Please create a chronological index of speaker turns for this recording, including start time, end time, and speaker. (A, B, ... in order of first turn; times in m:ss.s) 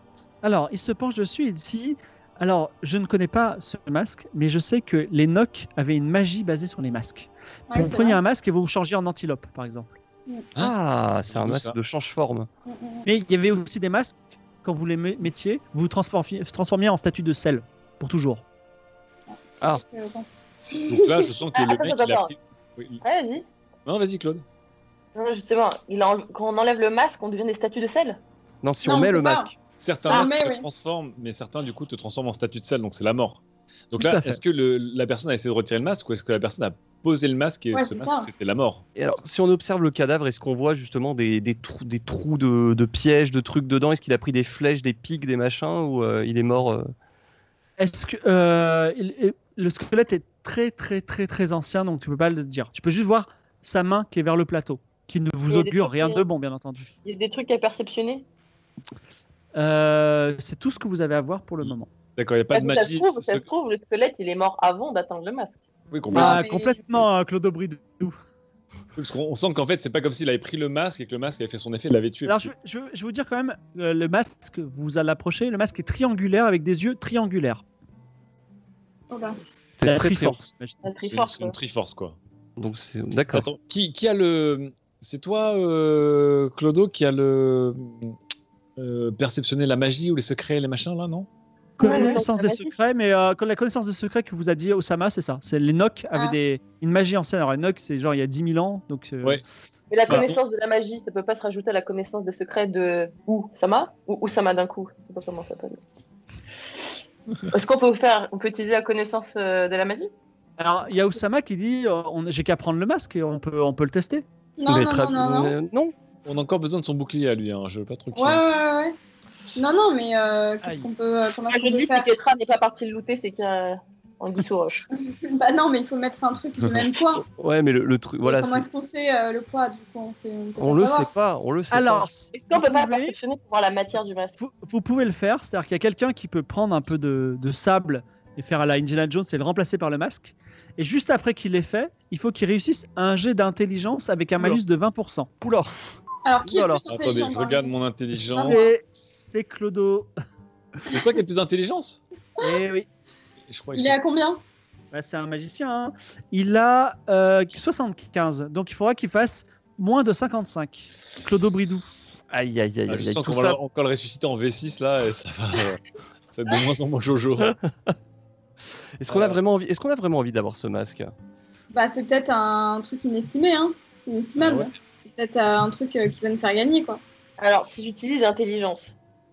0:00.4-0:09.9 A
0:07.7-0:08.2 B
0:10.6-0:12.5 C
0:11.3-0:11.8 D
0:12.7-0:13.0 B
0:13.1-0:18.4 A
0:19.3-0:20.3 B
0:20.9-0:23.0 D
0:21.5-0:22.3 E
0:23.0-0:23.4 E
0:23.9-0:24.4 D
0:25.2-0:28.2 E
0:28.6-0:29.5 C
0:28.8-0:30.7 B
0:29.8-0:38.8 D
0:34.0-0:34.4 A
0:37.7-0:38.3 B
0:39.0-0:46.9 C
0:47.8-0:56.9 A
0:55.5-0:56.2 E
0:57.0-0:58.2 E
0:59.6-1:01.9 A
1:02.2-1:03.5 D
1:02.5-1:05.6 E
1:05.9-1:06.4 D
1:06.1-1:08.1 A
1:06.1-1:06.8 B
1:09.0-1:12.5 D
1:12.3-1:17.6 A
1:19.1-1:19.4 B
1:19.8-1:20.4 C
1:19.8-1:20.8 A
1:20.8-1:21.6 E
1:21.1-1:22.2 D
1:22.6-1:23.5 C
1:23.3-1:28.1 D
1:28.8-1:31.3 D
1:31.8-1:39.4 A
1:31.8-1:32.7 E
1:31.9-1:32.1 B
1:39.9-1:45.8 E
1:40.1-1:40.4 D
1:47.5-1:50.1 E
1:50.6-1:54.2 A
1:54.6-1:55.5 B
1:54.7-1:55.9 C
1:56.3-1:58.4 D
1:58.2-1:59.0 B
1:59.6-2:02.1 B
2:01.5-2:04.9 E
2:04.9-2:07.2 B
2:07.4-2:08.7 C
2:08.2-2:11.1 B
2:10.6-2:12.1 C
2:11.7-2:13.1 A
2:12.3-2:14.4 E
2:14.4-2:25.5 A
2:25.4-2:25.7 C
2:26.2-2:27.7 B
2:26.5-2:26.8 C
2:26.9-2:28.6 D
2:28.3-2:28.7 B
2:28.3-2:30.1 A
2:30.9-2:32.0 D
2:32.4-2:32.9 A
2:33.5-2:34.0 D
2:33.7-2:34.4 B
2:34.9-2:41.9 A
2:42.3-2:43.6 C
2:42.9-2:45.8 D
2:46.3-2:47.5 D
2:47.4-2:47.9 C
2:49.0-2:51.1 C
2:49.1-2:49.4 D
2:51.7-2:57.0 B
2:54.4-2:54.7 D
2:57.4-2:58.9 E